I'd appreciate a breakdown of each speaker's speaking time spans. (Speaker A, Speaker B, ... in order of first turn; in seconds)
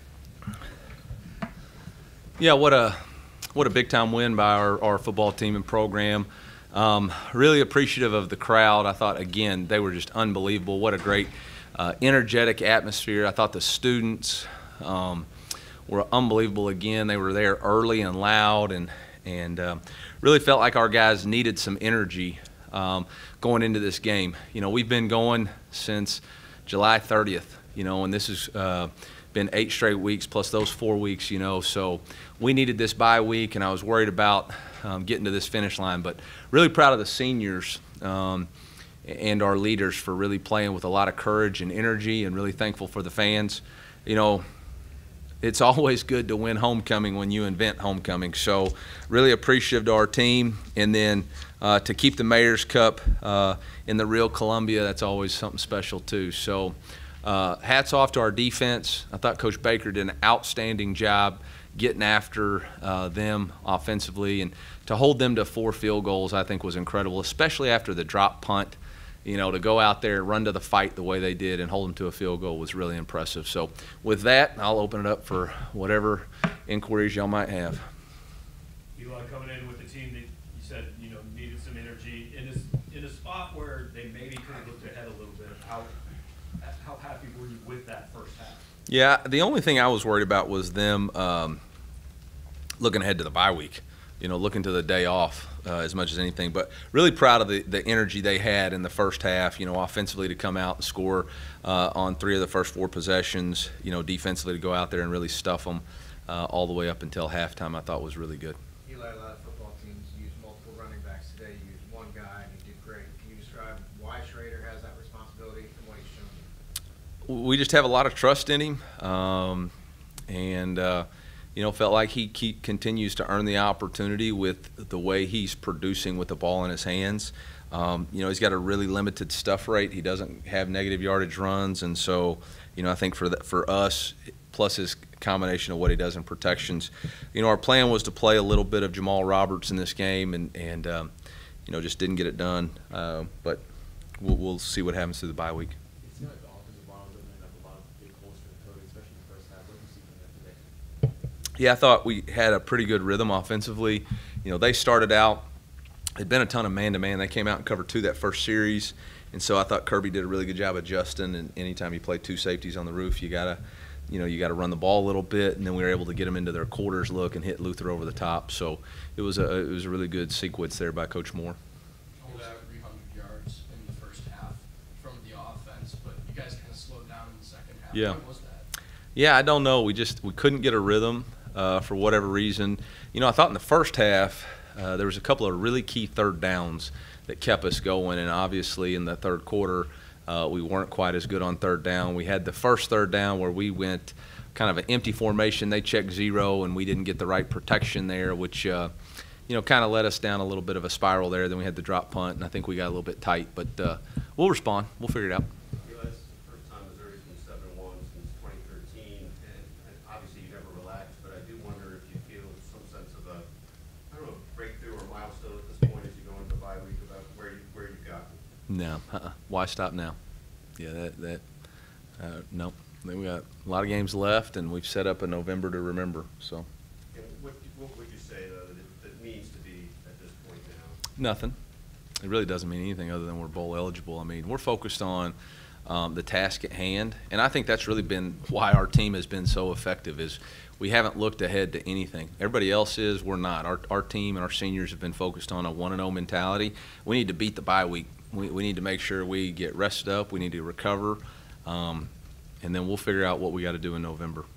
Speaker A: 2.4-3.0, 3.5-15.3, 15.9-38.5, 39.0-44.4, 45.4-77.8, 88.9-91.6, 92.8-108.6, 117.3-119.7, 120.3-141.1, 141.7-143.6, 144.2-145.8, 151.6-155.4, 156.2-171.6, 177.9-178.2, 179.1-198.9, 199.5-205.5, 218.7-220.2, 220.8-221.4, 222.2-226.7, 231.2-231.5, 232.2-235.3, 235.8-252.1, 252.6-254.5
Speaker B: 78.9-86.0, 86.6-88.6
Speaker C: 108.8-116.5
Speaker D: 146.0-150.8
Speaker E: 172.2-178.7
Speaker F: 205.8-213.5, 214.1-218.4, 227.1-231.0